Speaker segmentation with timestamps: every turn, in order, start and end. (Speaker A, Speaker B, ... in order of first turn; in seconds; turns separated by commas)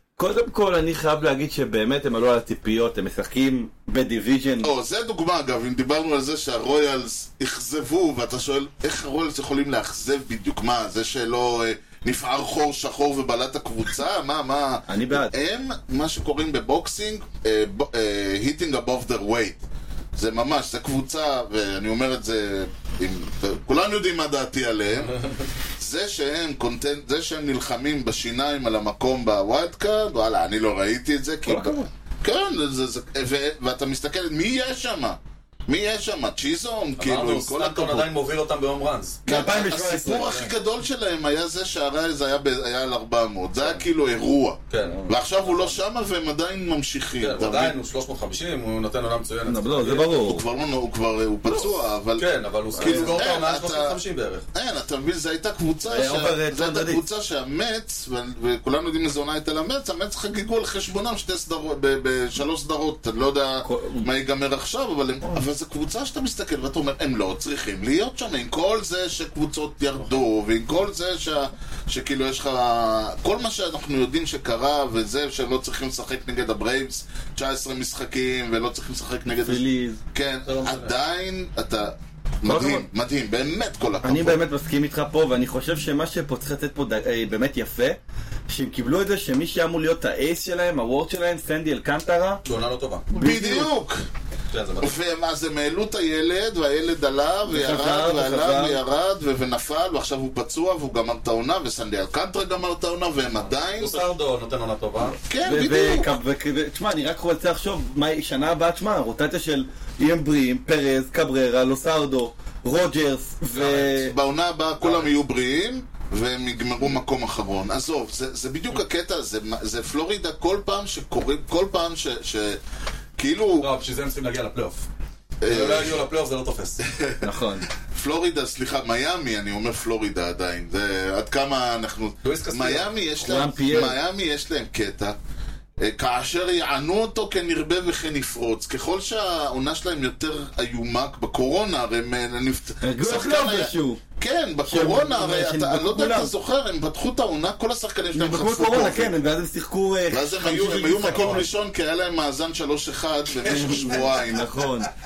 Speaker A: 0.2-4.7, Speaker B: 4.6-19.6, Speaker A: 14.9-15.3, Speaker B: 20.1-25.2, Speaker B: 25.8-38.1, Speaker A: 31.5-31.8, Speaker C: 37.0-39.2, Speaker B: 39.2-47.8, Speaker A: 39.3-40.5, Speaker C: 43.6-43.8, Speaker C: 44.7-45.8, Speaker A: 44.9-45.1, Speaker C: 47.2-50.1, Speaker A: 49.5-50.4, Speaker B: 50.2-52.3, Speaker C: 52.2-54.5, Speaker A: 52.8-53.2, Speaker B: 52.8-54.0, Speaker B: 54.5-79.6, Speaker A: 55.9-57.0, Speaker A: 63.6-64.0, Speaker A: 79.4-80.0, Speaker B: 80.1-84.4, Speaker C: 80.4-80.9, Speaker A: 82.4-82.9, Speaker A: 84.0-92.4, Speaker C: 92.4-93.1, Speaker A: 93.1-93.7, Speaker B: 93.1-94.0, Speaker C: 94.5-94.9, Speaker B: 94.8-104.0, Speaker A: 97.5-98.8, Speaker C: 103.4-105.2, Speaker B: 105.3-106.1, Speaker A: 105.4-114.1, Speaker C: 113.5-113.9, Speaker B: 113.8-122.6, Speaker C: 114.8-115.1, Speaker B: 123.2-123.7, Speaker C: 123.6-124.9, Speaker B: 125.4-126.0, Speaker C: 125.5-126.8, Speaker B: 126.8-127.3, Speaker A: 127.2-127.7, Speaker B: 127.8-135.2, Speaker C: 132.2-132.9, Speaker A: 133.2-134.0, Speaker B: 135.8-149.1, Speaker A: 142.8-144.0, Speaker A: 144.7-146.3, Speaker A: 148.1-151.4, Speaker B: 150.1-154.5, Speaker C: 150.8-151.4, Speaker A: 153.4-154.9